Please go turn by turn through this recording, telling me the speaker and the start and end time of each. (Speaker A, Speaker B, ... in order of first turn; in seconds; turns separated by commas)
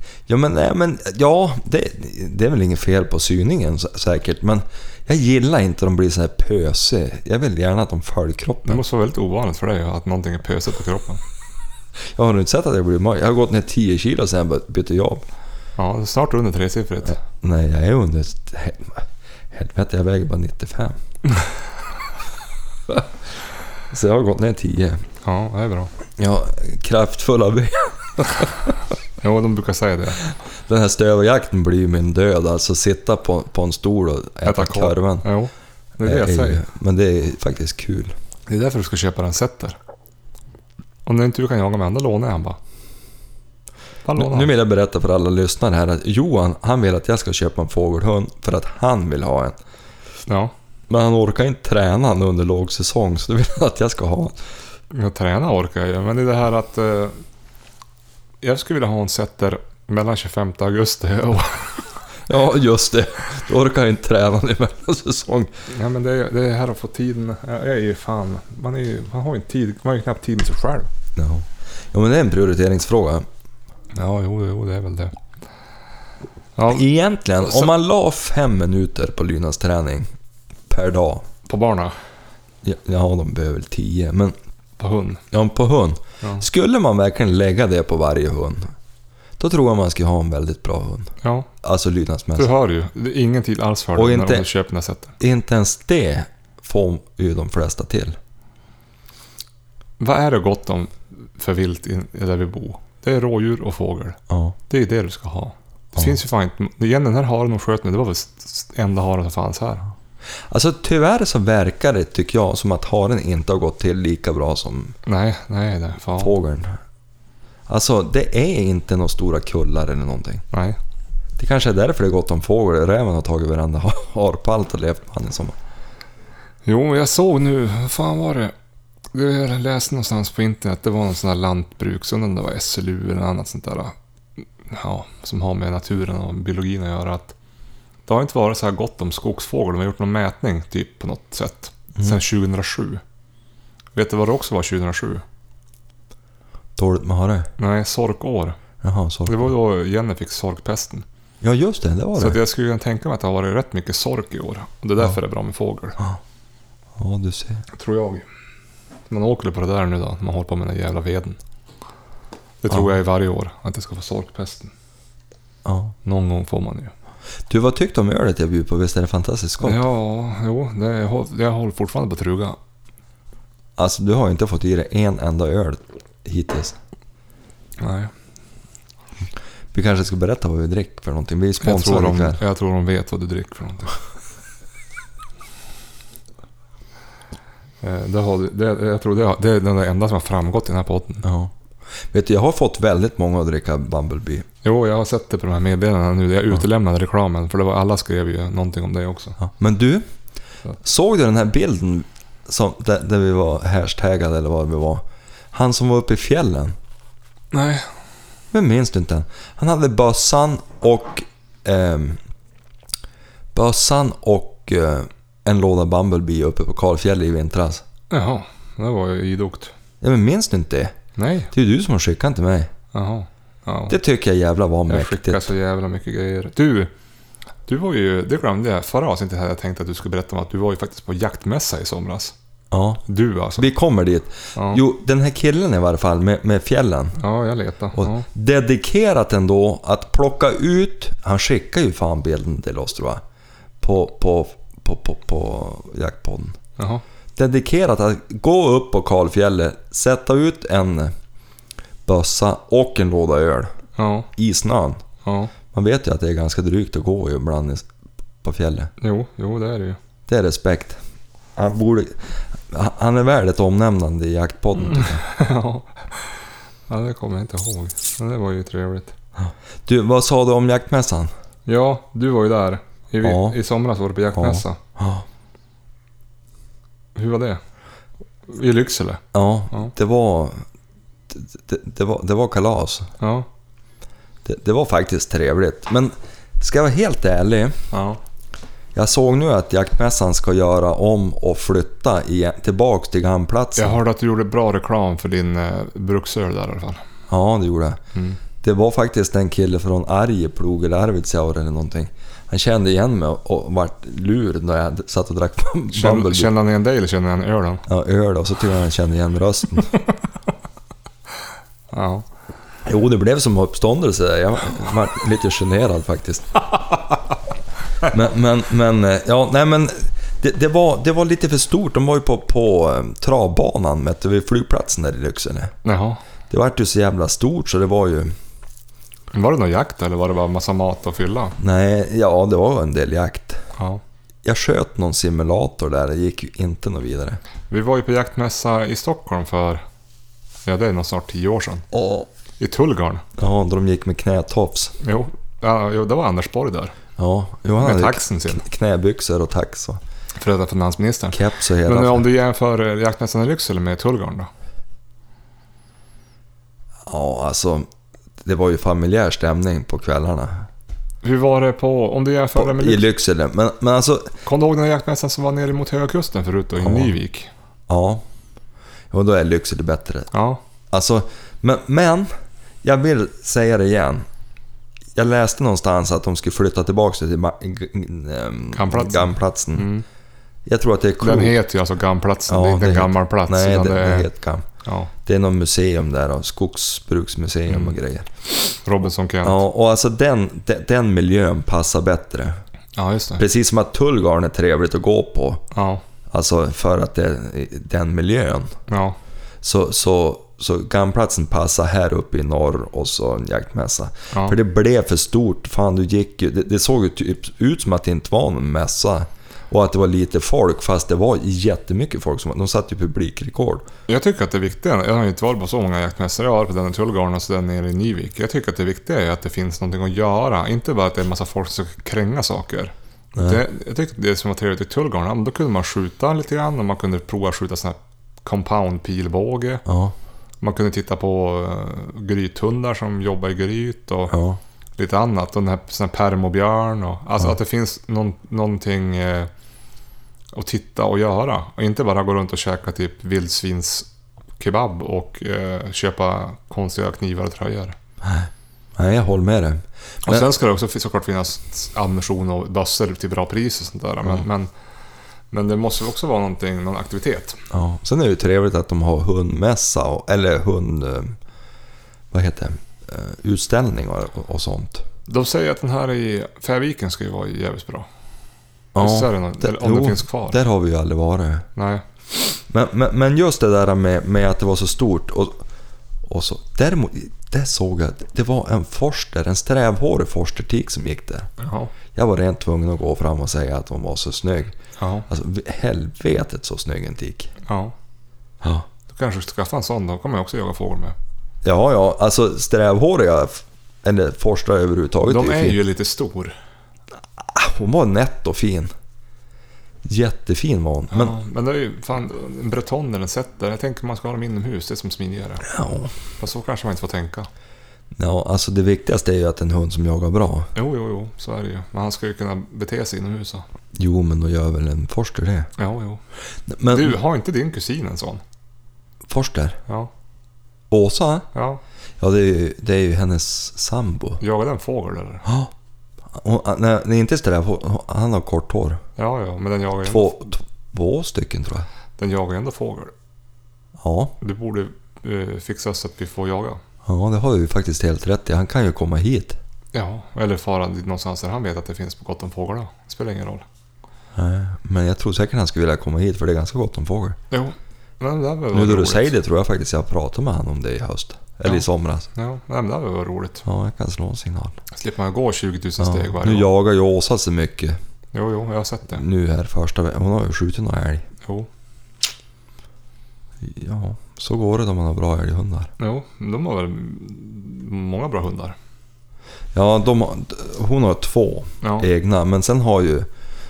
Speaker A: 0.3-8.8, Speaker B: 8.7-11.2, Speaker A: 12.0-15.2, Speaker B: 15.8-17.2, Speaker A: 17.2-21.0, Speaker A: 23.9-25.0, Speaker B: 25.2-25.9, Speaker A: 26.2-28.8, Speaker B: 29.2-30.2, Speaker A: 30.2-35.3, Speaker B: 34.5-36.6, Speaker A: 36.0-38.1, Speaker B: 38.5-39.8, Speaker B: 41.1-42.6, Speaker B: 44.0-44.5, Speaker A: 44.2-49.6, Speaker B: 50.3-50.5, Speaker A: 50.9-54.4, Speaker B: 54.9-57.2, Speaker B: 58.4-61.9, Speaker A: 62.3-65.5, Speaker B: 65.7-70.9, Speaker A: 71.2-73.3, Speaker B: 73.9-75.2, Speaker B: 76.6-76.8, Speaker A: 76.7-80.1, Speaker B: 77.4-77.7, Speaker A: 80.7-81.3, Speaker B: 81.5-82.0, Speaker A: 82.6-84.3, Speaker B: 84.8-85.2, Speaker A: 85.3-88.7, Speaker A: 89.4-92.5, Speaker B: 91.2-91.5, Speaker B: 92.4-95.2, Speaker A: 94.0-94.5, Speaker A: 95.2-98.2, Speaker B: 100.0-109.9, Speaker A: 104.3-104.5, Speaker A: 110.5-115.0, Speaker B: 115.1-116.3, Speaker A: 116.2-116.8, Speaker A: 117.7-120.4, Speaker B: 120.5-120.8, Speaker A: 121.4-125.6, Speaker B: 126.7-128.5, Speaker B: 129.1-133.9, Speaker B: 134.6-137.3, Speaker B: 138.1-143.0, Speaker B: 143.9-145.2, Speaker A: 146.8-147.5, Speaker B: 147.6-148.6, Speaker A: 148.8-149.5, Speaker B: 149.3-151.1, Speaker A: 151.4-152.4, Speaker B: 152.2-156.0, Speaker A: 157.0-157.6, Speaker B: 157.7-158.2, Speaker B: 159.1-161.4, Speaker B: 162.6-164.7, Speaker A: 165.7-165.9, Speaker B: 166.1-166.9, Speaker A: 167.5-169.8, Speaker B: 169.6-172.6, Speaker A: 173.8-176.8, Speaker B: 177.8-178.1, Speaker A: 179.7-182.4, Speaker B: 181.6-184.0, Speaker B: 187.8-191.3, Speaker A: 191.2-191.5, Speaker A: 192.1-194.4, Speaker B: 194.6-199.4, Speaker A: 199.4-200.1, Speaker A: 200.8-206.8, Speaker B: 207.5-207.9, Speaker A: 208.5-212.2, Speaker A: 213.5-217.8, Speaker B: 218.1-219.7, Speaker A: 220.0-221.0, Speaker B: 221.2-221.5, Speaker A: 221.5-222.7, Speaker B: 222.9-224.0, Speaker A: 223.9-225.5, Speaker B: 224.9-226.9, Speaker B: 227.7-232.3, Speaker A: 232.7-233.0, Speaker B: 233.1-233.7, Speaker A: 233.6-237.2, Speaker B: 234.6-234.8, Speaker B: 237.2-238.3, Speaker A: 238.0-243.2, Speaker A: 243.8-246.6, Speaker B: 246.8-247.0, Speaker A: 247.4-251.1, Speaker A: 252.1-253.7, Speaker B: 254.0-254.3, Speaker A: 254.3-255.0, Speaker B: 255.2-255.5, Speaker A: 255.7-257.9, Speaker A: 258.4-258.9, Speaker B: 259.0-260.0, Speaker A: 260.3-261.0, Speaker A: 261.6-265.2, Speaker B: 264.8-269.1, Speaker A: 269.4-271.3, Speaker B: 271.7-274.8, Speaker A: 273.2-273.6, Speaker A: 274.4-275.2, Speaker B: 277.1-277.6, Speaker B: 278.5-279.9, Speaker A: 279.3-280.6, Speaker A: 281.3-283.1, Speaker B: 283.2-283.5, Speaker A: 284.4-287.8, Speaker B: 287.9-288.2, Speaker A: 288.9-294.0, Speaker B: 293.8-297.0, Speaker A: 297.3-298.0, Speaker B: 298.1-298.4, Speaker A: 298.6-306.5, Speaker B: 305.9-307.9, Speaker A: 307.9-309.9, Speaker B: 311.9-312.2, Speaker A: 312.9-316.7, Speaker A: 318.0-325.7, Speaker B: 325.9-326.2, Speaker A: 326.5-328.4, Speaker B: 329.3-331.6, Speaker A: 331.6-333.6, Speaker A: 334.4-337.4, Speaker B: 337.7-339.8, Speaker B: 340.7-341.9, Speaker A: 341.9-342.3, Speaker B: 342.6-343.2, Speaker A: 343.4-344.9, Speaker B: 345.0-347.0, Speaker A: 347.2-350.0, Speaker B: 347.8-348.6, Speaker B: 350.4-354.5, Speaker A: 351.3-352.3, Speaker A: 357.1-357.9, Speaker A: 358.4-360.7, Speaker B: 361.2-363.1, Speaker A: 362.6-364.4, Speaker B: 364.4-367.5, Speaker A: 366.8-367.1, Speaker A: 367.9-368.2, Speaker A: 369.1-370.3, Speaker B: 370.3-370.6, Speaker A: 370.9-372.3, Speaker A: 372.8-374.2, Speaker A: 375.1-379.9, Speaker B: 378.7-380.1, Speaker A: 380.7-381.6, Speaker B: 381.2-384.3, Speaker A: 382.5-384.7, Speaker B: 384.8-385.1, Speaker A: 385.2-388.8, Speaker B: 387.7-388.0, Speaker B: 388.9-389.6, Speaker A: 389.4-392.6, Speaker B: 393.0-393.4, Speaker A: 393.4-395.6, Speaker B: 395.7-396.0, Speaker A: 396.3-398.8, Speaker B: 398.9-399.2, Speaker A: 399.6-413.9, Speaker B: 404.3-404.6, Speaker B: 414.1-429.8, Speaker A: 423.4-423.6, Speaker A: 429.9-430.1, Speaker B: 430.6-434.4, Speaker A: 434.3-434.6, Speaker B: 435.0-439.5, Speaker B: 440.5-444.1, Speaker B: 444.6-448.0, Speaker A: 448.2-450.5, Speaker B: 450.2-454.7, Speaker B: 455.5-457.6, Speaker A: 457.7-461.4, Speaker A: 462.3-465.0, Speaker B: 465.3-468.1, Speaker A: 468.9-471.7, Speaker B: 469.0-470.6, Speaker B: 471.8-472.0, Speaker A: 472.3-475.6, Speaker A: 476.2-481.5, Speaker B: 481.6-481.9, Speaker A: 482.1-484.7, Speaker B: 485.0-485.3, Speaker A: 485.3-487.5, Speaker B: 487.7-487.9, Speaker A: 488.6-488.9, Speaker B: 489.1-491.1, Speaker A: 491.6-495.8, Speaker B: 495.2-496.6, Speaker A: 497.4-498.9, Speaker A: 500.0-501.4, Speaker B: 501.1-505.8, Speaker A: 505.7-506.1, Speaker B: 506.4-507.5, Speaker A: 508.1-510.7, Speaker B: 510.8-513.7, Speaker A: 514.0-515.7, Speaker B: 515.8-516.2, Speaker A: 516.7-517.2, Speaker B: 516.9-518.4, Speaker A: 519.3-519.8, Speaker A: 520.9-521.5, Speaker B: 521.5-521.8, Speaker A: 522.2-524.4, Speaker B: 524.4-525.5, Speaker A: 525.5-525.7, Speaker A: 526.3-529.0, Speaker B: 529.2-530.4, Speaker A: 530.0-531.9, Speaker B: 532.2-533.1, Speaker A: 534.0-534.3, Speaker B: 534.4-536.8, Speaker A: 537.0-539.6, Speaker B: 539.9-543.6, Speaker A: 544.4-547.4, Speaker B: 547.5-549.4, Speaker A: 548.7-552.3, Speaker B: 551.7-553.6, Speaker A: 553.6-554.8, Speaker B: 554.9-556.7, Speaker A: 556.0-558.0, Speaker B: 558.3-559.2, Speaker A: 559.1-561.2, Speaker B: 561.4-561.7, Speaker A: 563.6-565.9, Speaker B: 566.0-568.8, Speaker A: 569.7-573.3, Speaker B: 571.8-572.1